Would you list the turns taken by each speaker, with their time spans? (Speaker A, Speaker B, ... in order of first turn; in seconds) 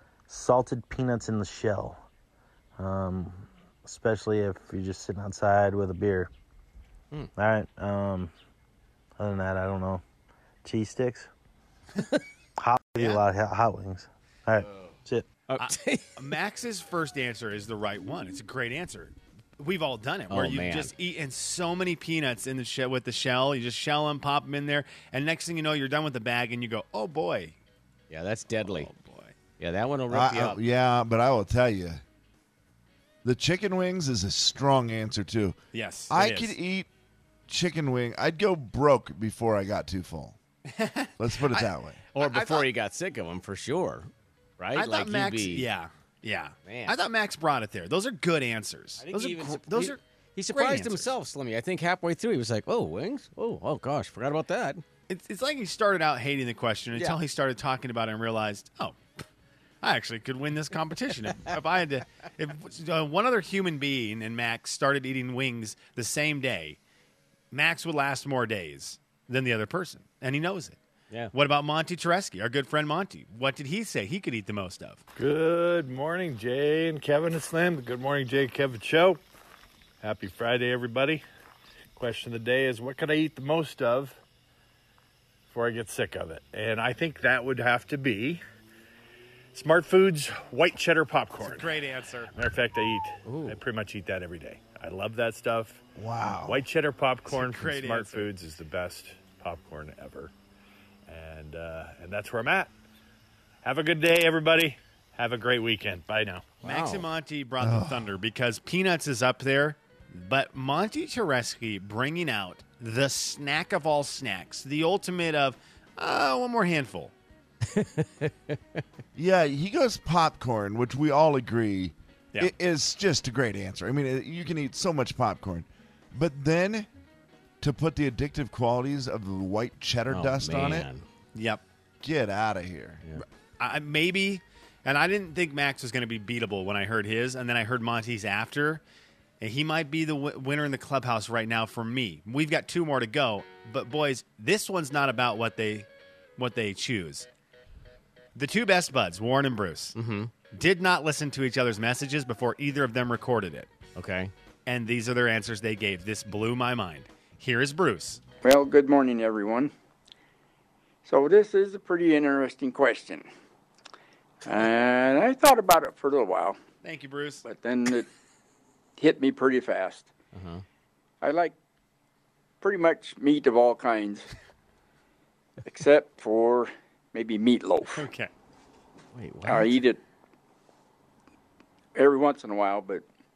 Speaker A: 0.3-2.0, 2.8-6.3, 7.4-8.3, 9.2-10.0, 10.6-11.3, 12.6-15.3
Speaker B: 13.0-13.2, 15.6-27.6, 28.6-29.4, 35.7-36.5, 40.7-42.7, 44.8-51.1, 55.1-59.2, 59.8-66.8, 67.5-70.8, 71.3-75.0, 91.4-92.3, 97.3-98.3, 106.6-117.1, 131.3-131.6, 133.6-138.8, 139.4-147.3, 148.4-149.9, 150.5-153.7, 154.7-158.2, 166.8-167.4, 177.9-178.3
Speaker C: 15.5-16.2, 20.3-20.9, 28.1-28.9, 29.6-30.6, 42.2-45.7, 46.6-47.0, 49.0-54.8, 93.2-93.6, 106.6-107.1, 117.7-118.6, 130.1-131.0, 149.9-150.3, 154.0-154.3, 170.3-170.6, 179.1-179.8
Speaker D: 30.1-32.0, 33.2-35.6, 36.1-36.9, 37.5-40.4, 41.2-42.0, 96.0-96.6, 107.6-108.1, 119.2-126.9, 127.6-130.9, 132.0-133.0
Speaker E: 75.2-79.2, 80.0-81.2, 82.0-84.2, 85.5-88.4, 89.5-91.7, 92.3-95.8, 96.4-100.3, 101.1-102.7, 103.6-106.6
Speaker F: 158.4-159.7, 161.1-163.3, 164.4-166.6, 167.4-168.1, 169.0-170.1, 171.2-171.6, 172.6-174.3, 175.7-178.1, 179.4-180.0, 181.9-183.1